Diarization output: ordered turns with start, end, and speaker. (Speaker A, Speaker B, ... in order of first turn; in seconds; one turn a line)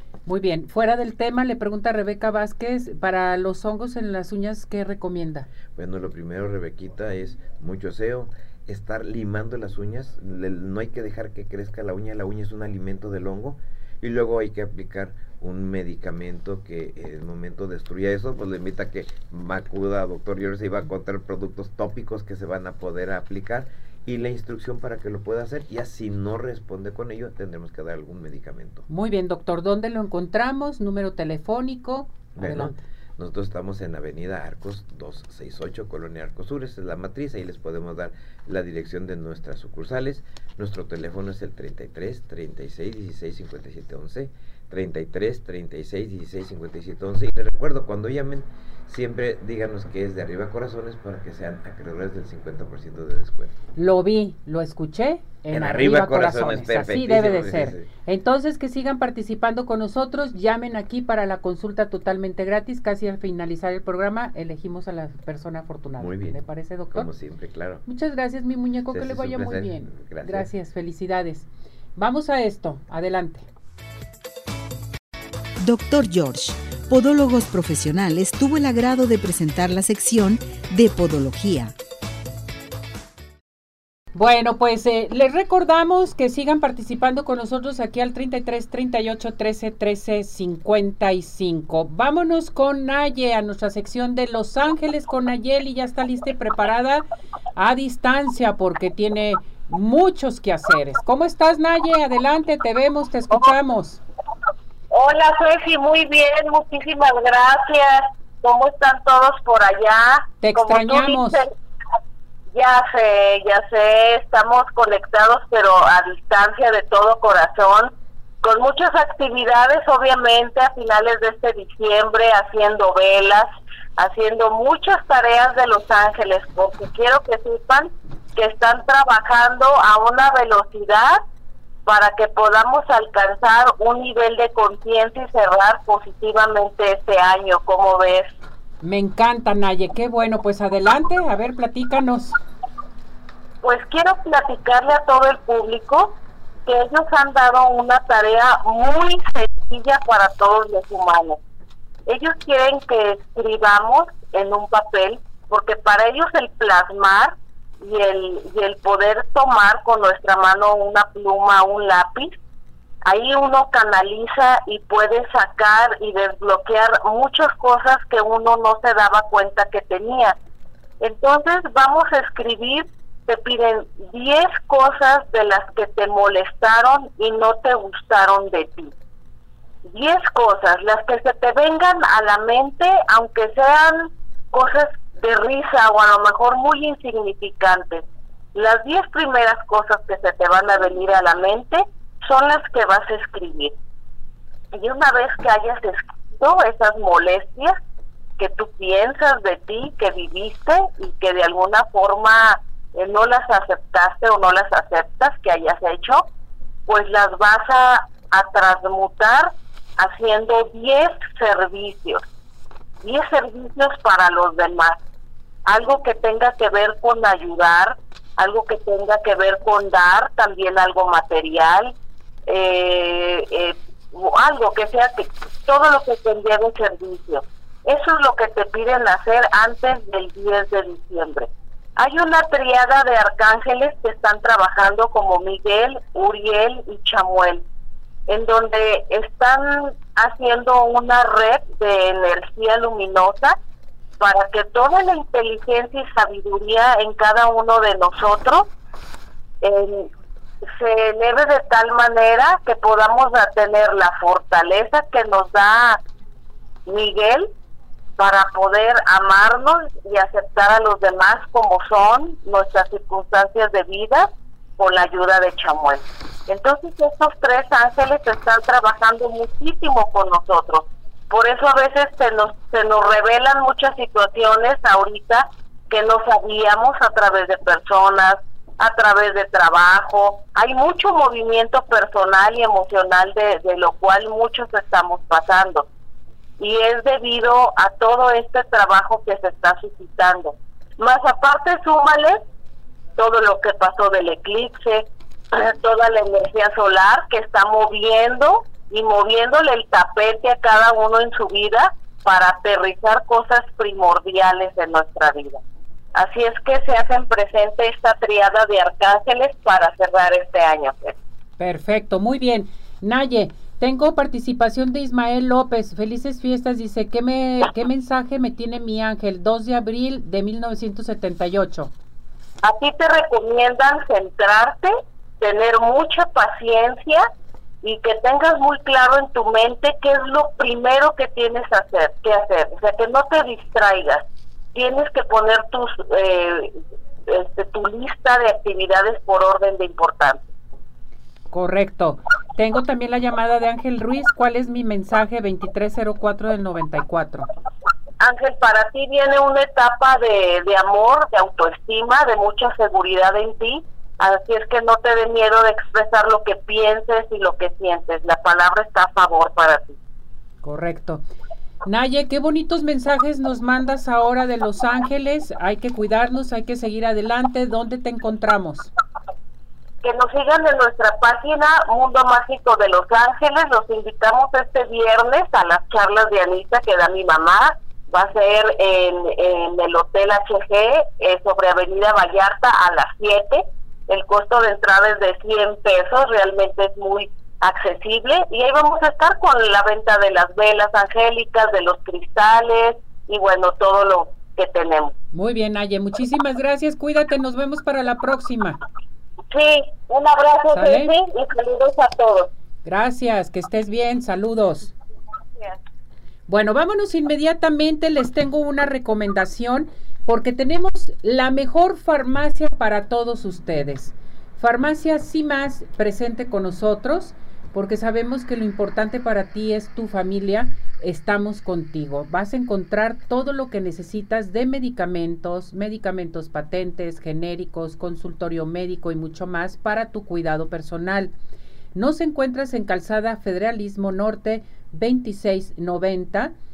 Speaker A: 0.3-5.5
Speaker B: 5.8-28.9
Speaker A: 28.9-32.8
Speaker B: 32.4-53.6
Speaker A: 53.8-67.1
Speaker B: 55.5-57.9
Speaker B: 66.0-67.8
Speaker A: 67.8-73.5
Speaker B: 68.9-70.5
Speaker C: 75.6-81.8
Speaker A: 84.1-104.0
Speaker D: 104.9-111.5
Speaker A: 110.4-111.4
Speaker D: 112.5-117.9
Speaker D: 118.4-131.2
Speaker D: 131.9-138.4
Speaker A: 138.8-142.4
Speaker D: 143.6-151.4
Speaker D: 152.1-162.4
Speaker D: 163.1-170.4
Speaker D: 171.0-178.9
Speaker D: 179.9-188.0
Speaker D: 188.5-193.7
Speaker D: 194.7-197.8
Speaker D: 198.4-206.2
Speaker D: 206.9-212.2
Speaker D: 213.0-215.0
Speaker D: 215.7-221.9
Speaker D: 222.5-237.6
Speaker D: 238.3-243.6
Speaker D: 244.2-248.7
Speaker D: 249.6-250.1
Speaker D: 250.7-256.0
Speaker D: 256.9-257.5
Speaker D: 258.2-285.9
Speaker D: 286.6-292.4
Speaker D: 293.2-305.6
Speaker D: 306.1-311.2
Speaker A: 311.6-321.9
Speaker D: 322.6-327.3
Speaker D: 327.8-334.2
Speaker D: 334.8-336.8
Speaker D: 337.3-340.5
Speaker A: 341.5-347.5
Speaker D: 348.2-360.0
Speaker A: 360.6-361.2
Speaker A: 361.9-368.9
Speaker D: 370.0-395.1
Speaker A: 395.3-398.8
Speaker D: 399.5-402.5
Speaker A: 400.7-401.1
Speaker A: 402.8-404.9
Speaker A: 406.5-431.4
Speaker A: 431.9-436.5